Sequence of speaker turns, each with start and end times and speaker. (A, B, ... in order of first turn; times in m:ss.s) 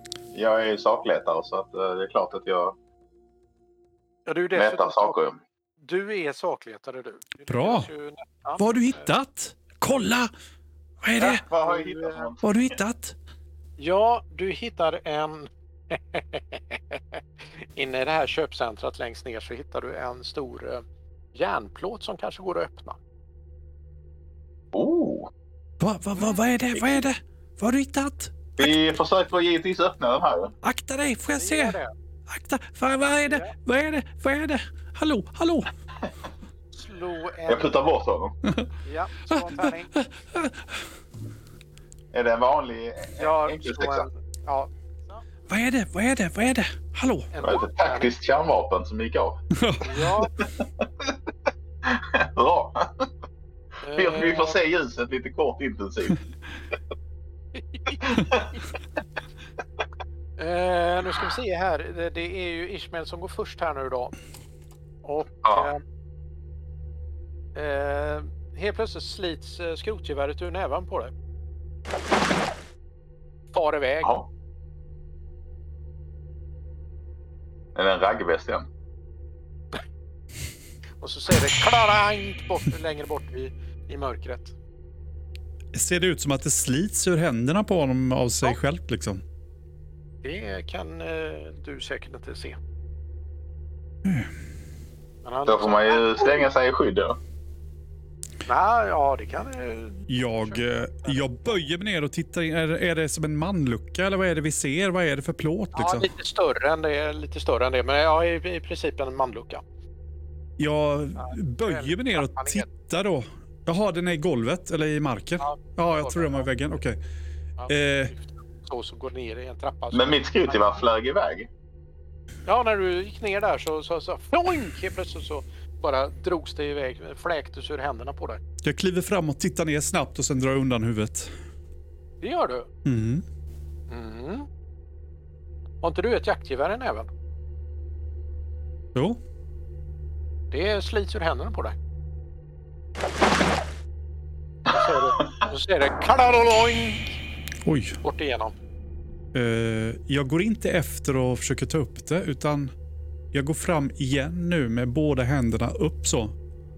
0:00.3-0:02.8 A
0:04.3-0:05.2 B
0:04.6-0:05.4 A
0:05.8-0:09.1 B
0:07.5-0:07.9 C
0:08.6-0:10.3 C
0:11.0-0:11.4 C
0:11.2-0:12.6 A
0:11.2-0:12.3 B
0:12.4-0:13.2 C
0:13.8-0:23.0 B
0:24.7-0:25.3 A
0:25.8-0:28.7 C
0:28.6-0:30.5 A
0:30.6-0:31.8 C
0:31.3-0:31.9 B
0:32.3-0:35.7 C
0:33.0-0:33.5 B
0:36.7-0:37.8 B
0:37.5-0:38.4 A
0:38.8-0:39.9 B
0:39.3-0:40.8 C
0:42.1-0:44.1 A
0:43.2-0:45.2 B
0:45.5-0:47.3 C
0:47.3-0:48.1 B
0:47.4-0:49.4 A
0:49.5-0:50.2 C
0:49.8-0:50.3 B
0:51.8-0:53.1 A
0:53.8-0:54.6 B
0:54.0-0:56.2 A
0:57.6-0:58.0 B
0:58.0-0:58.5 A
1:00.4-1:04.2 B
1:05.0-1:05.8 B
1:05.4-1:05.7 A
1:07.6-1:11.1 B
1:13.5-1:14.2 B
1:17.8-1:18.7 A
1:21.0-1:24.6 B
1:25.7-1:29.2 C
1:30.2-1:32.6 B
1:34.0-1:34.3 C
1:35.2-1:36.5 B
1:35.5-1:37.2 A
1:38.5-1:41.3 B
1:40.1-1:46.1 C
1:45.8-1:49.6 B
1:50.6-1:57.0 C
1:51.2-1:52.7 B
1:55.4-1:56.5 B
1:57.6-2:00.8 B
1:57.7-1:58.1 C
1:59.9-2:01.5 A
2:02.5-2:08.4 B
2:08.6-2:11.3 C
2:12.2-2:12.7 B
2:12.8-2:13.2 C
2:13.9-2:14.5 B
2:15.8-2:17.1 B
2:19.0-2:19.2 C
2:20.5-2:21.8 B
2:24.7-2:27.1 B
2:27.6-2:28.0 C
2:28.0-2:28.6 B
2:29.3-2:32.7 C
2:33.3-2:36.4 C